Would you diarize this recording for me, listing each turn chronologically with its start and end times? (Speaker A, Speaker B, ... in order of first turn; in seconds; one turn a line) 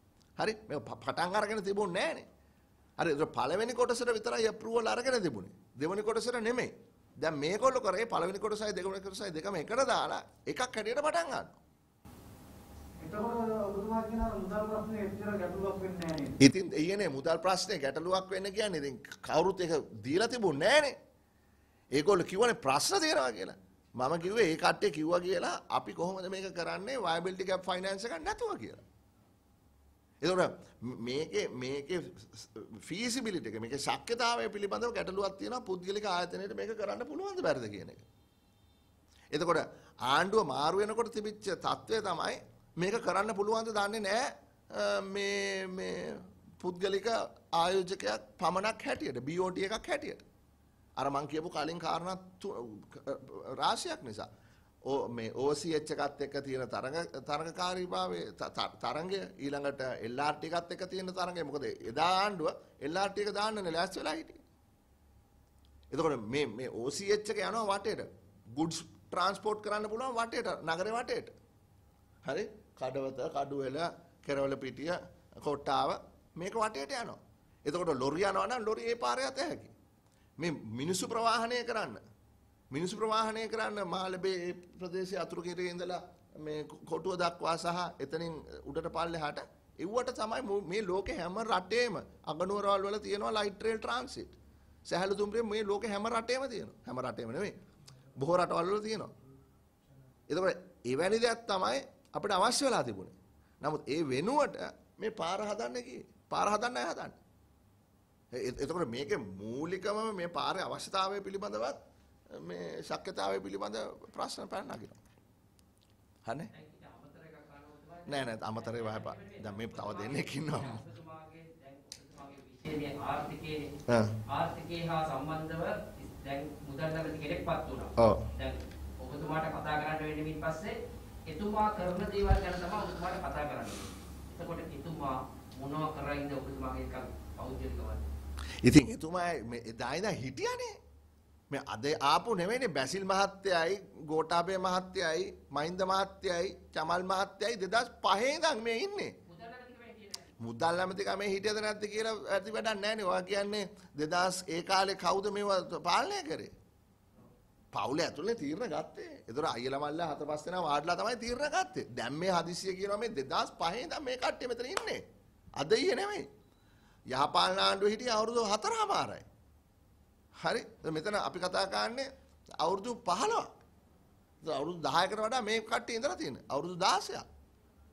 Speaker A: 0.4-2.3
Speaker A: 3.0-11.6
Speaker B: 13.0-16.4
Speaker A: 16.4-21.0
Speaker A: 21.9-28.8
Speaker A: 30.2-38.0
Speaker A: 39.3-50.2
Speaker A: 51.0-54.3
Speaker A: 54.9-64.4
Speaker A: 65.9-71.3
Speaker A: 72.2-79.7
Speaker A: 80.4-82.0
Speaker A: 82.7-94.4
Speaker A: 94.9-97.6
Speaker A: 98.2-99.1
Speaker A: 100.3-107.2
Speaker A: 108.3-111.8
Speaker A: 112.3-115.0
Speaker A: 116.2-116.5
Speaker C: 116.5-123.7
Speaker A: 118.1-120.8
Speaker A: 123.9-124.1
Speaker C: 124.3-130.8
Speaker A: 128.0-128.2
Speaker C: 131.3-138.1
Speaker A: 138.6-140.8
Speaker A: 141.5-149.1
Speaker C: 149.2-150.3
Speaker A: 150.4-156.5
Speaker A: 157.7-165.0
Speaker A: 165.6-166.3
Speaker A: 167.1-169.2
Speaker A: 170.4-172.1
Speaker A: 172.6-173.5
Speaker A: 174.4-177.2